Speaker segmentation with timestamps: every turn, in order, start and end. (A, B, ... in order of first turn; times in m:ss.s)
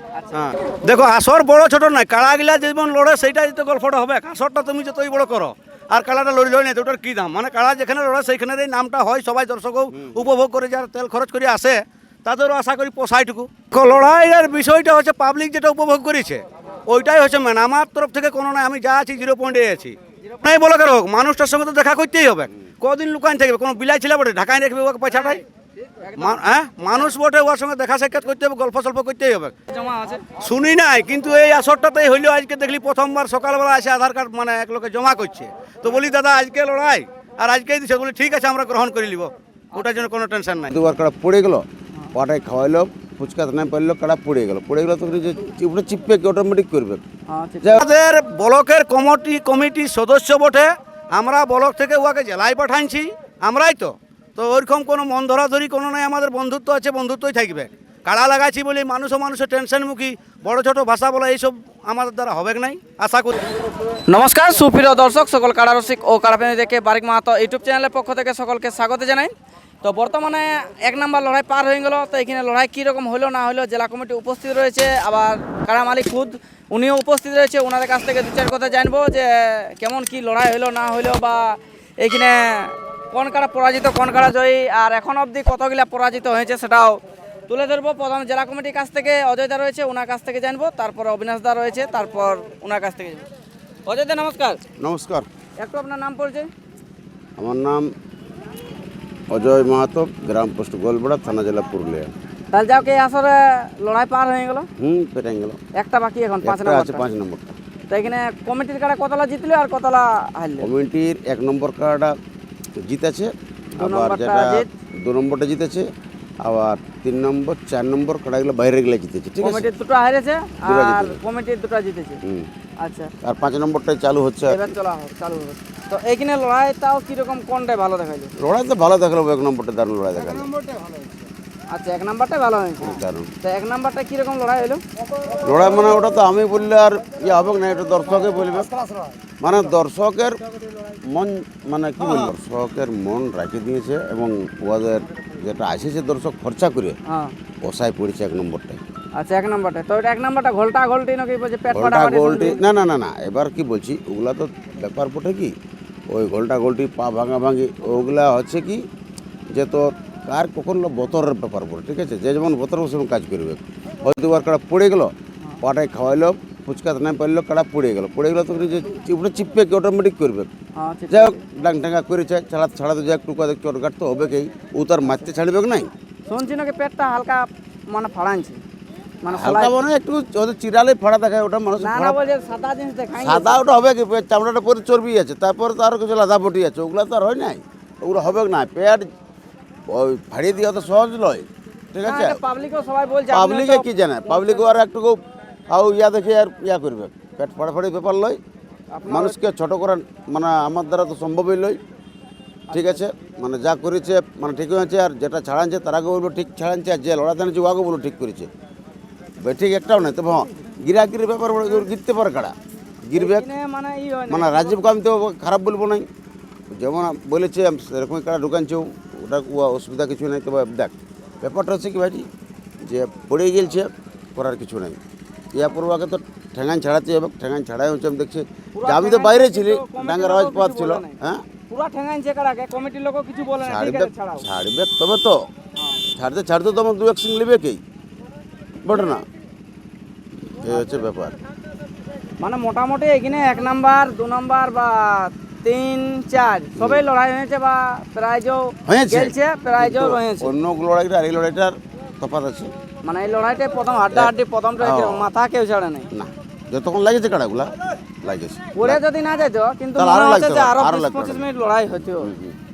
0:00.2-0:00.6 A
0:00.3-0:25.4 B
0:09.9-0:10.2 C
0:25.9-0:27.1 A
0:26.2-0:29.6 B
0:29.7-0:30.3 A
0:30.4-0:40.8 B
0:39.7-0:40.1 A
0:40.7-0:47.0 C
0:47.3-0:47.8 A
0:47.7-1:03.4 B
1:04.1-1:09.3 A
1:09.8-1:33.3 A
1:33.9-1:34.6 A
1:34.8-1:35.3 C
1:35.6-1:36.5 A
1:37.4-1:37.9 C
1:39.3-1:42.1 C
1:42.5-1:44.7 A
1:44.8-1:45.6 C
1:45.8-1:47.1 A
1:46.4-1:47.6 C
1:47.9-1:50.7 A
1:50.6-1:52.1 C
1:52.8-1:55.9 C
1:53.8-1:54.7 A
1:56.4-1:59.7 C
1:59.4-2:02.2 A
2:00.6-2:01.2 C
2:02.8-2:03.1 A
2:03.2-2:04.6 C
2:04.5-2:08.3 A
2:08.4-2:10.5 C
2:11.7-2:14.8 A
2:12.8-2:13.3 C
2:15.4-2:18.7 C
2:19.4-2:20.4 C
2:21.0-2:27.0 C
2:27.1-2:27.4 A
2:27.6-2:28.8 C
2:29.2-2:32.6 A
2:31.7-2:35.6 C
2:36.1-2:38.8 C
2:39.5-2:50.5 C
2:50.8-2:51.4 A
2:51.1-2:55.9 C
2:56.3-2:58.6 A
2:59.2-2:59.8 A
2:59.3-3:02.2 C
3:01.8-3:03.6 A
3:03.2-3:09.1 C
3:09.9-3:12.4 C
3:12.0-3:14.7 A
3:13.3-3:15.2 C
3:15.7-3:18.4 C
3:18.9-3:19.4 A
3:19.1-3:21.8 C
3:22.7-3:23.0 A
3:22.7-3:28.5 C
3:29.4-3:32.5 C
3:33.0-3:33.5 C
3:33.2-3:34.8 A
3:34.3-3:36.1 C
3:36.7-3:42.3 C
3:42.8-3:45.0 C
3:45.5-3:51.4 C
3:48.8-3:51.2 A
3:51.7-3:54.4 A
3:53.6-3:55.4 C
3:55.8-3:56.0 A
3:56.1-3:57.8 C
3:58.8-3:59.2 C
4:00.6-4:01.4 C
4:02.4-4:10.5 A
4:06.8-4:07.0 C
4:08.9-4:12.7 C
4:13.0-4:16.1 A
4:14.1-4:15.3 C
4:16.1-4:19.0 C
4:18.8-4:22.3 A
4:20.0-4:21.5 C
4:22.2-4:22.6 C